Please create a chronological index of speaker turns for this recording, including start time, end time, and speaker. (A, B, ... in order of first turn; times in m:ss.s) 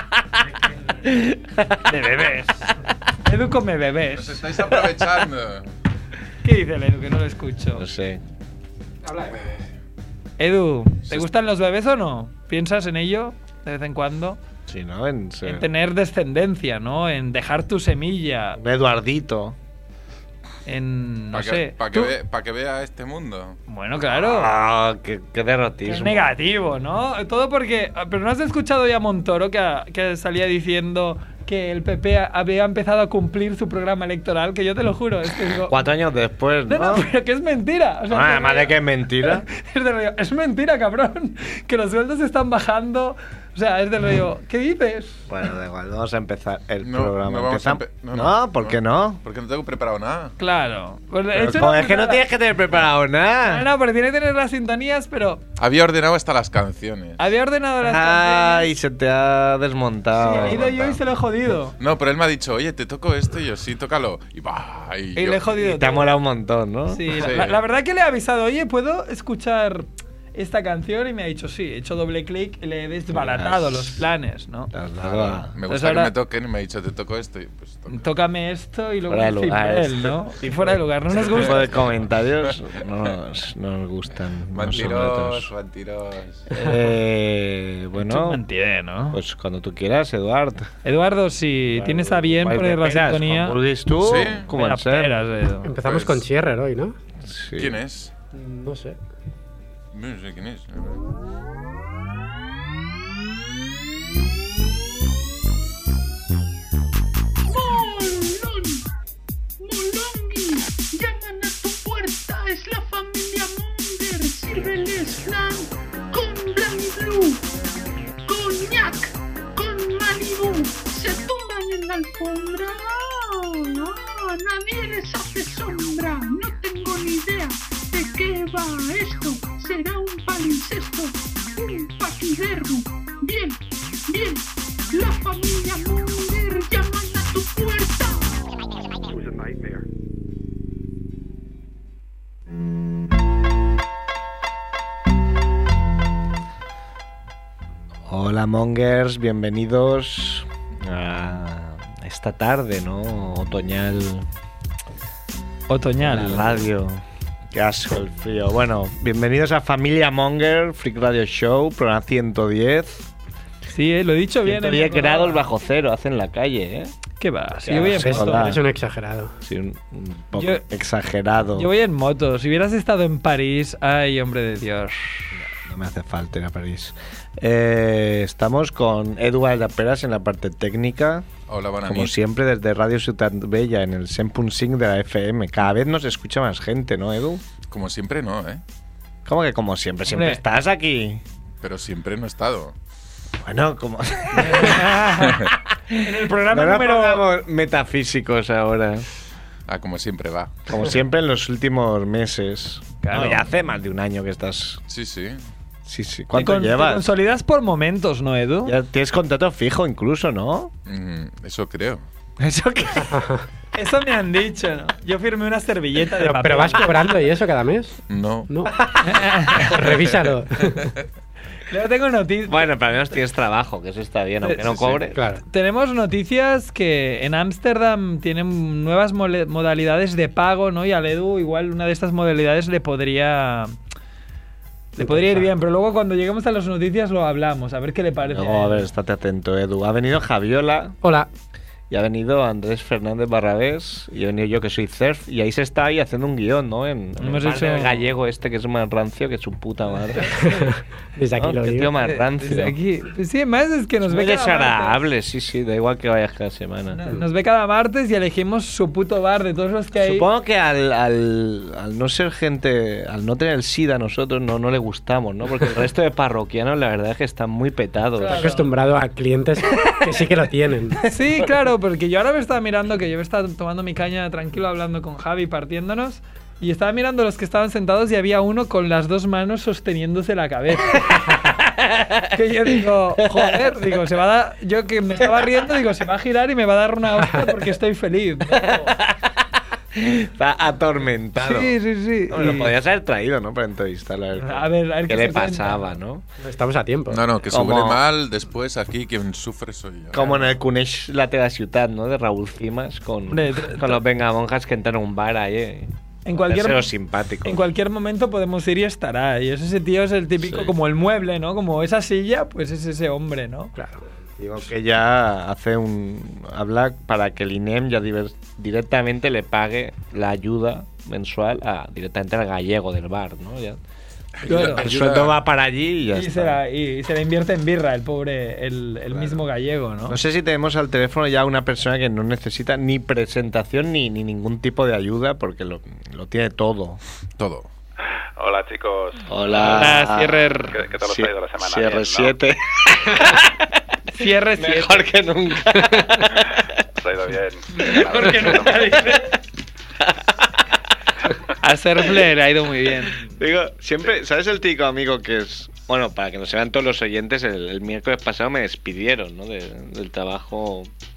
0:01.0-0:02.2 A
0:01.8-0:04.9 B
0:04.1-0:05.7 C
0:06.4-0:07.9 B
0:07.8-0:08.2 A
0:09.3-0:09.6 C
0:10.4-0:14.4 B
0:14.7-0:15.7 A
0:15.4-0:18.6 B
0:18.6-0:19.6 A
0:20.7-0:22.1 B
0:21.3-0:23.6 C
0:23.7-0:24.5 B
0:24.1-0:26.3 A
0:25.9-0:35.7 B
0:35.5-0:37.1 A
0:36.7-0:45.2 B
0:38.1-0:39.4 A
0:45.3-0:49.2 A
0:46.8-0:50.4 C
0:50.4-0:52.2 B
0:51.3-0:53.7 A
0:53.4-0:55.4 B
0:55.6-0:57.2 C
0:57.2-0:58.7 B
0:57.8-1:01.0 A
1:00.2-1:01.8 B
1:01.8-1:05.4 C
1:05.2-1:06.1 B
1:05.6-1:07.4 A
1:06.9-1:14.7 B
1:07.2-1:07.6 C
1:13.1-1:14.0 A
1:14.7-1:15.6 A
1:15.0-1:18.0 C
1:15.7-1:16.1 B
1:17.9-1:21.7 B
1:19.1-1:20.1 A
1:21.2-1:22.1 C
1:21.3-1:25.5 A
1:24.5-1:26.5 C
1:26.6-1:28.4 A
1:28.0-1:29.2 B
1:29.1-1:30.7 A
1:30.8-1:33.6 B
1:31.8-1:35.1 A
1:34.0-1:34.5 C
1:34.5-1:35.7 B
1:35.6-1:37.0 D
1:35.8-1:36.3 C
1:37.2-1:37.8 A
1:37.6-1:38.1 C
1:38.3-1:39.0 D
1:39.9-1:41.0 C
1:47.5-1:48.8 E
1:49.6-1:57.4 E
1:58.3-2:18.3 E
2:28.1-2:34.3 A
2:35.7-2:36.5 B
2:36.0-2:43.1 A
2:43.7-2:45.4 B
2:44.4-2:46.9 A
2:47.2-2:48.6 B
2:47.7-2:48.6 A
2:47.7-2:49.3 D
2:49.4-2:51.7 A
2:50.4-2:50.6 B
2:51.6-2:55.3 B
2:55.3-3:01.3 A
3:01.5-3:02.2 C
3:01.8-3:07.4 A
3:07.7-3:08.6 C
3:09.3-3:11.2 A
3:10.1-3:10.4 B
3:11.6-3:12.7 C
3:13.4-3:19.1 A
3:14.4-3:17.2 B
3:19.7-3:20.8 C
3:20.7-3:24.8 A
3:23.0-3:23.5 B
3:24.9-3:25.4 C
3:25.8-3:27.1 A
3:26.3-3:28.8 B
3:28.6-3:30.7 A
3:30.9-3:32.0 C
3:32.4-3:33.2 A
3:33.7-3:37.1 B
3:36.2-3:38.7 D
3:38.1-3:38.7 C
3:39.0-3:39.8 B
3:39.6-3:40.9 D
3:39.8-3:40.9 C
3:41.7-3:42.8 B
3:42.5-3:45.2 A
3:44.7-3:45.1 C
3:45.2-3:45.4 D
3:45.4-3:53.8 B
3:55.0-3:58.9 B
3:55.0-3:55.5 D
3:58.2-4:01.0 A
4:01.0-4:01.3 D
4:01.9-4:10.5 A
4:07.2-4:08.0 B
4:10.2-4:10.7 B
4:10.5-4:12.0 D
4:11.4-4:12.8 A
4:12.0-4:15.0 B
4:14.0-4:17.1 A
4:16.9-4:20.3 B
4:20.0-4:28.5 A
4:28.2-4:28.7 B
4:28.3-4:31.0 D
4:29.8-4:30.1 A
4:31.1-4:41.6 B
4:41.6-4:43.8 A
4:42.3-4:49.0 B
4:45.2-4:45.5 A
4:48.5-4:51.8 A
4:51.4-4:52.7 B
4:52.3-4:56.2 A
4:54.4-4:55.9 B
4:56.4-4:57.3 D
4:57.1-5:00.2 C
4:57.5-4:58.0 A
5:00.1-5:07.7 A
5:03.3-5:04.0 B
5:06.2-5:06.9 B
5:07.4-5:13.7 B
5:13.8-5:14.0 D
5:14.4-5:23.8 A
5:24.4-5:26.6 A
5:24.4-5:24.9 B
5:24.5-5:25.4 C
5:26.1-5:30.2 B
5:29.1-5:29.4 A
5:30.1-5:37.0 A
5:37.4-5:37.7 C
5:38.4-5:39.9 F
5:39.3-5:40.5 A
5:39.6-5:40.7 B
5:40.7-5:42.4 F
5:41.0-5:43.7 A
5:44.1-5:45.1 B
5:44.6-5:46.8 A
5:46.9-5:48.9 F
5:47.8-5:49.4 B
5:48.2-5:48.9 A
5:50.0-5:50.7 A
5:51.6-5:53.4 B
5:53.0-6:00.9 A